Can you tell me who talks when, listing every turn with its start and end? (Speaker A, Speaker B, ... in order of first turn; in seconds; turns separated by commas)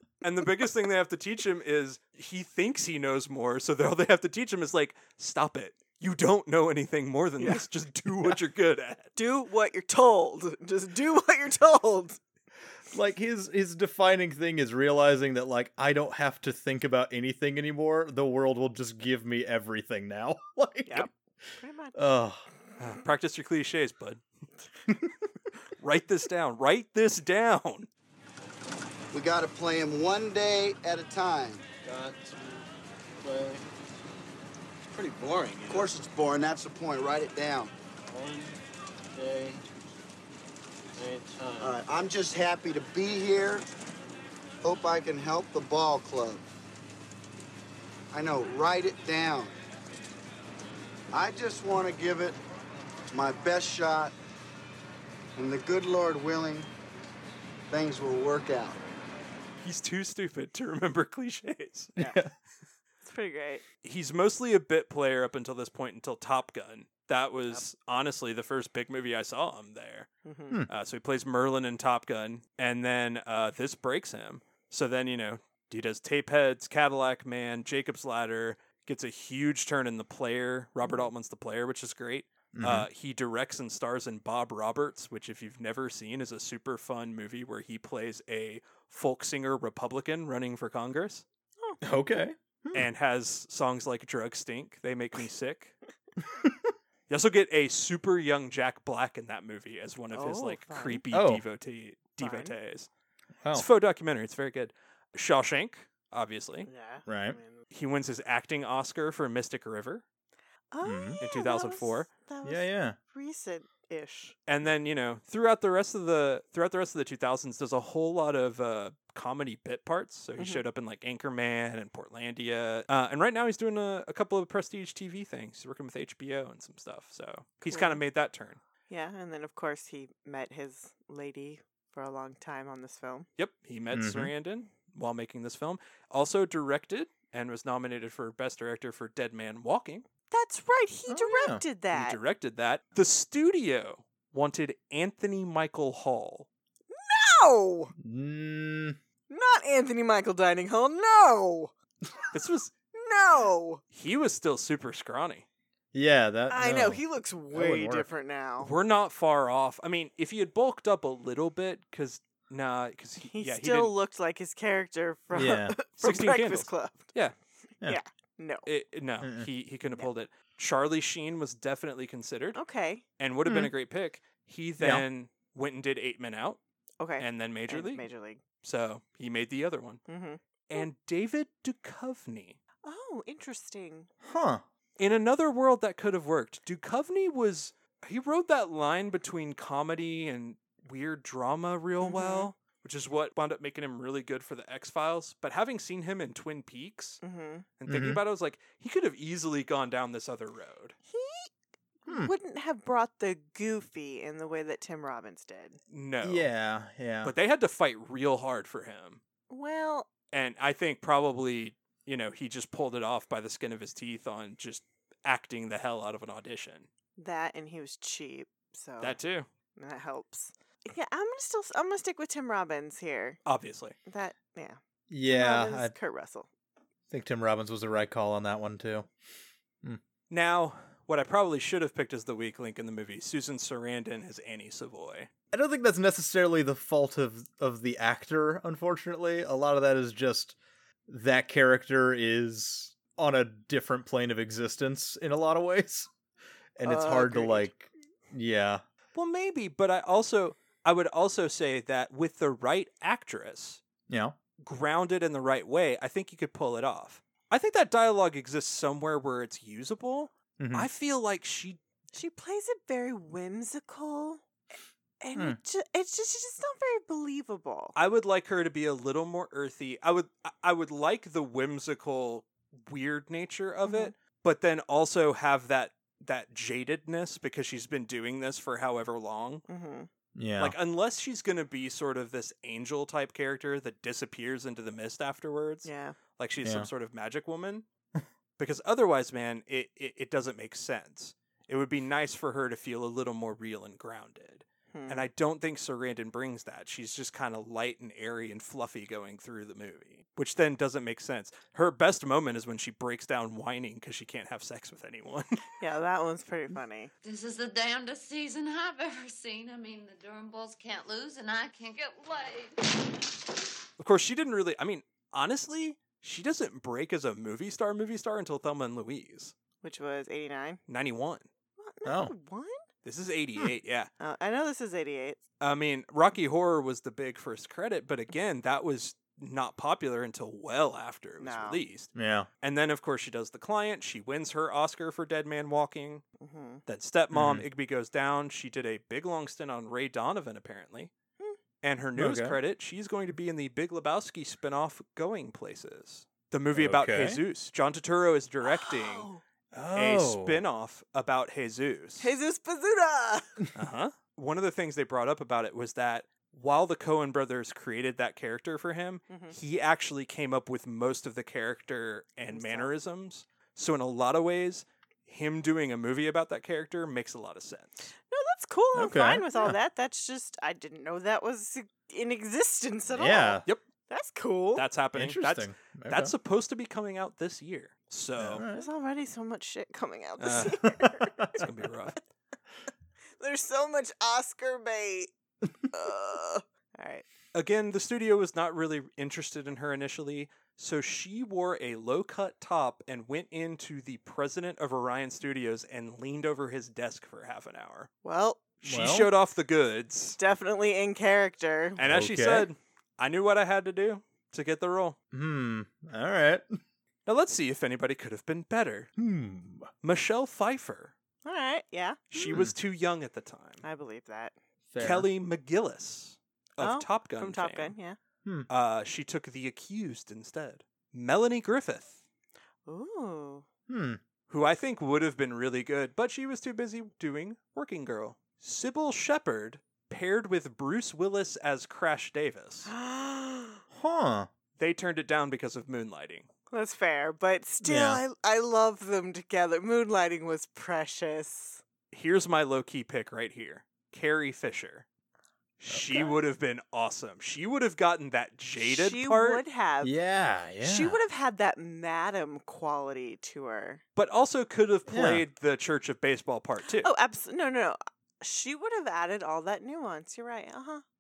Speaker A: 0.2-9.1, Speaker B: 9.2-12.2, Speaker C: 12.9-21.1, Speaker B: 20.9-22.0, Speaker C: 22.0-22.4, Speaker A: 22.8-24.2, Speaker A: 25.8-27.9, Speaker D: 29.1-31.6, Speaker E: 31.8-32.7, Speaker E: 33.2-33.7, Speaker E: 34.9-36.0, Speaker D: 35.7-37.7, Speaker E: 38.1-39.6, Speaker E: 41.0-41.8, Speaker D: 41.6-43.7, Speaker D: 44.6-46.4, Speaker D: 48.1-49.6, Speaker D: 51.1-52.4, Speaker D: 53.1-54.1, Speaker D: 55.4-56.7, Speaker D: 57.7-58.8, Speaker A: 59.6-61.9, Speaker C: 62.0-62.3, Speaker B: 63.0-63.6, Speaker A: 63.8-70.1, Speaker B: 70.2-70.6, Speaker A: 70.7-91.2, Speaker B: 80.8-81.1, Speaker C: 82.5-82.9, Speaker C: 91.8-92.9, Speaker A: 92.7-95.8, Speaker C: 96.4-96.7, Speaker A: 97.1-102.9, Speaker B: 100.1-101.0, Speaker C: 101.1-101.4, Speaker B: 102.2-102.5, Speaker A: 103.5-106.7, Speaker B: 106.7-107.6, Speaker C: 107.1-107.4, Speaker A: 107.7-110.0, Speaker B: 110.7-114.4, Speaker C: 110.8-111.2, Speaker A: 111.2-112.1, Speaker C: 112.4-113.0, Speaker A: 114.5-128.6, Speaker B: 120.4-120.6, Speaker B: 127.7-128.0, Speaker B: 128.9-133.3, Speaker A: 133.4-140.1, Speaker C: 133.9-134.3, Speaker B: 140.3-142.2, Speaker C: 141.1-141.6, Speaker A: 141.9-146.5, Speaker B: 146.9-147.9, Speaker C: 148.0-149.0, Speaker B: 149.3-151.7, Speaker A: 152.3-152.7, Speaker B: 152.9-153.8, Speaker A: 153.9-155.5, Speaker C: 155.9-158.1, Speaker B: 156.5-158.7, Speaker A: 158.6-163.9, Speaker B: 163.2-167.1, Speaker C: 165.3-165.8, Speaker A: 166.0-167.3, Speaker B: 167.8-168.7, Speaker A: 168.7-172.6, Speaker C: 169.2-169.5, Speaker B: 172.5-173.0, Speaker A: 173.2-176.6, Speaker C: 173.4-173.7, Speaker C: 174.8-175.0, Speaker B: 177.0-178.4, Speaker A: 177.2-178.1, Speaker A: 178.6-180.0, Speaker B: 180.1-180.9, Speaker A: 180.7-182.6, Speaker B: 182.8-184.1, Speaker C: 184.2-184.6, Speaker A: 185.0-197.2, Speaker B: 192.0-192.5, Speaker B: 197.2-197.7, Speaker A: 197.8-201.0, Speaker C: 197.9-198.2, Speaker B: 201.1-201.5, Speaker B: 202.1-205.8, Speaker C: 202.1-202.3, Speaker A: 205.9-206.5, Speaker C: 206.2-207.3, Speaker A: 207.2-209.2, Speaker B: 209.5-210.1, Speaker A: 210.3-216.9, Speaker B: 217.2-219.2, Speaker A: 219.0-219.5, Speaker B: 219.8-223.4, Speaker A: 223.5-224.0, Speaker B: 224.1-226.5, Speaker C: 225.1-225.9, Speaker C: 227.1-229.1, Speaker A: 230.3-235.3, Speaker C: 235.5-240.6, Speaker C: 241.1-246.1, Speaker C: 246.8-248.8, Speaker B: 246.8-247.7, Speaker A: 249.2-253.8, Speaker C: 254.1-254.4, Speaker A: 254.6-261.8, Speaker C: 260.6-260.9, Speaker B: 262.1-264.4, Speaker B: 265.2-267.9, Speaker A: 267.9-279.6, Speaker B: 273.9-274.1, Speaker B: 279.7-280.1, Speaker C: 280.4-280.8, Speaker A: 280.6-287.9, Speaker B: 285.9-286.2, Speaker C: 286.6-286.9, Speaker A: 288.6-305.6, Speaker B: 294.9-295.3, Speaker B: 305.8-307.1, Speaker F: 307.2-312.9, Speaker A: 314.0-319.5, Speaker B: 319.8-320.8, Speaker A: 320.9-321.5, Speaker B: 321.8-322.8, Speaker C: 322.1-322.3, Speaker A: 323.0-324.1, Speaker B: 324.2-325.4, Speaker A: 325.6-336.2, Speaker B: 331.4-331.8, Speaker C: 332.1-332.5, Speaker B: 336.4-336.8, Speaker A: 336.9-341.1, Speaker C: 337.3-337.6, Speaker A: 341.8-349.3, Speaker C: 342.2-342.6, Speaker C: 346.7-347.4, Speaker B: 348.6-349.4, Speaker C: 349.7-350.6, Speaker A: 349.9-352.3, Speaker B: 352.2-353.6, Speaker A: 353.8-368.1, Speaker B: 359.3-359.6, Speaker B: 362.5-362.9, Speaker B: 368.3-374.9, Speaker C: 368.9-369.8, Speaker C: 373.1-373.6, Speaker A: 374.8-378.6, Speaker C: 375.1-376.3, Speaker C: 378.4-378.9, Speaker B: 378.7-381.6, Speaker A: 380.4-380.8, Speaker A: 381.5-382.2, Speaker B: 383.4-385.3, Speaker B: 385.9-387.3, Speaker A: 387.5-398.1, Speaker B: 398.2-398.6, Speaker A: 398.8-400.4, Speaker C: 398.9-399.3, Speaker B: 400.4-402.0, Speaker A: 402.0-405.2, Speaker C: 402.1-402.7, Speaker C: 405.3-406.8, Speaker A: 407.3-409.1, Speaker C: 409.2-409.9, Speaker A: 410.0-411.1, Speaker B: 411.4-412.4, Speaker A: 412.3-413.8, Speaker C: 412.5-412.8, Speaker B: 413.8-414.6, Speaker C: 414.9-415.3, Speaker A: 415.0-417.9, Speaker B: 416.8-418.2, Speaker A: 418.7-422.2, Speaker B: 422.9-423.6, Speaker C: 423.9-424.2, Speaker A: 424.5-432.9, Speaker B: 432.9-433.8, Speaker C: 433.9-434.5, Speaker A: 434.8-436.5, Speaker B: 436.7-441.8, Speaker C: 437.8-438.2, Speaker A: 442.1-445.1, Speaker A: 445.8-449.6, Speaker C: 445.9-446.3, Speaker B: 448.8-450.1, Speaker C: 450.0-451.2, Speaker B: 450.8-454.0, Speaker A: 454.2-457.1, Speaker C: 455.1-455.4, Speaker B: 456.8-461.0